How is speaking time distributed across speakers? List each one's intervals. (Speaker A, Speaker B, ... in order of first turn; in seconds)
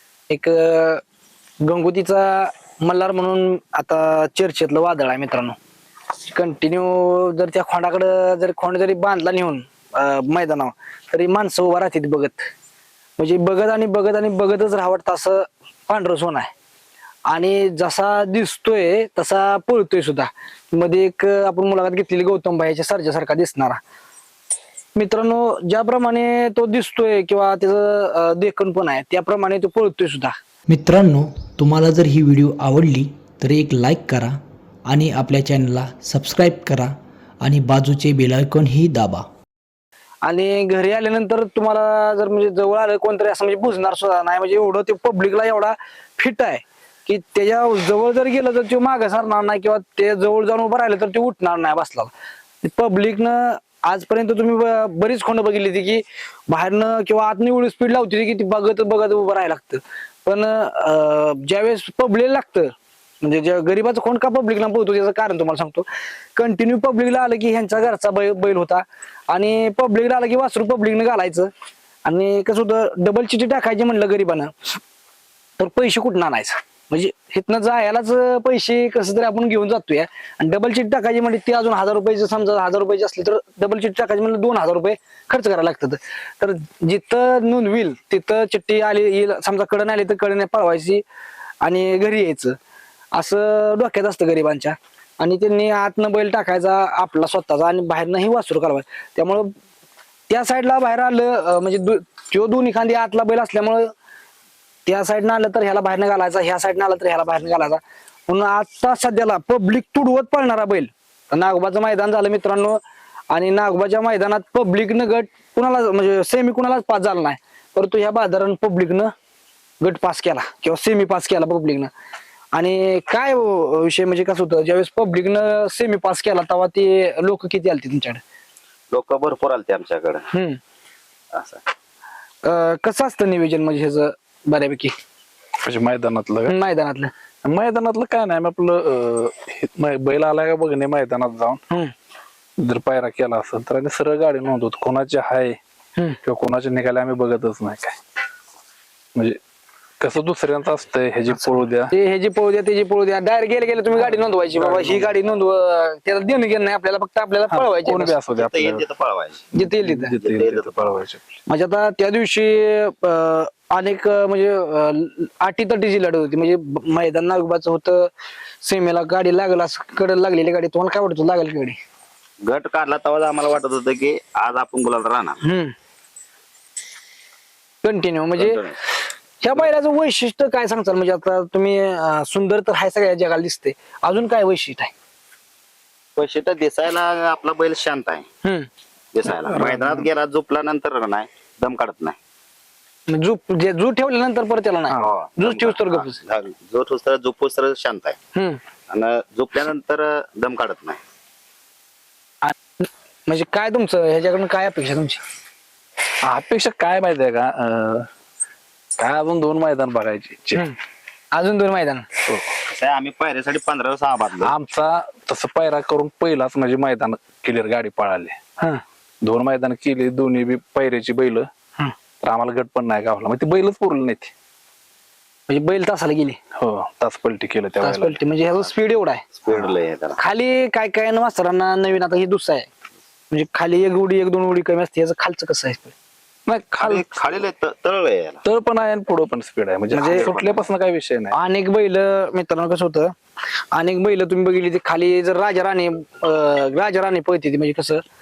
Speaker A: 0.3-1.0, 1.6-5.6, 6.2-12.5, 13.2-16.5, 17.3-23.8, 25.0-30.4, 40.2-71.5, 72.0-74.8, 75.6-91.0, 91.6-92.6, 93.1-99.5, 100.3-103.9, 104.9-112.8, 113.3-119.1, 119.8-121.9, 122.5-128.2, 130.3-130.6, 132.4-134.9, 136.5-137.1, 151.4-158.2, 159.5-160.2, 161.5-168.1, 168.6-171.8, 175.4-175.7, 177.8-178.6, 179.4-184.9, 193.1-196.2, 198.3-198.6, 202.4-205.2, 211.3-212.1, 225.5-226.4, 227.8-229.2, 230.2-232.7, 233.3-235.9, 239.9-240.3, 241.3-243.1, 243.7-248.0
Speaker B: 30.7-39.3
Speaker C: 128.9-130.2, 131.3-131.6, 158.3-159.5, 160.2-161.0, 172.4-175.4, 178.4-178.8, 186.2-188.3, 189.1-192.2, 195.0-198.2, 198.9-201.0, 212.7-214.5, 229.3-230.2, 236.8-238.4, 240.0-240.7
Speaker D: 135.6-136.5, 137.4-141.6, 142.6-145.6, 146.2-148.0, 150.0-151.9, 154.0-155.1, 157.5-158.8, 159.5-161.2, 189.3-190.1, 206.3-208.1, 209.0-210.7, 214.4-218.4, 219.2-221.5, 222.2-224.3, 226.6-228.2, 236.5-237.1, 238.4-241.4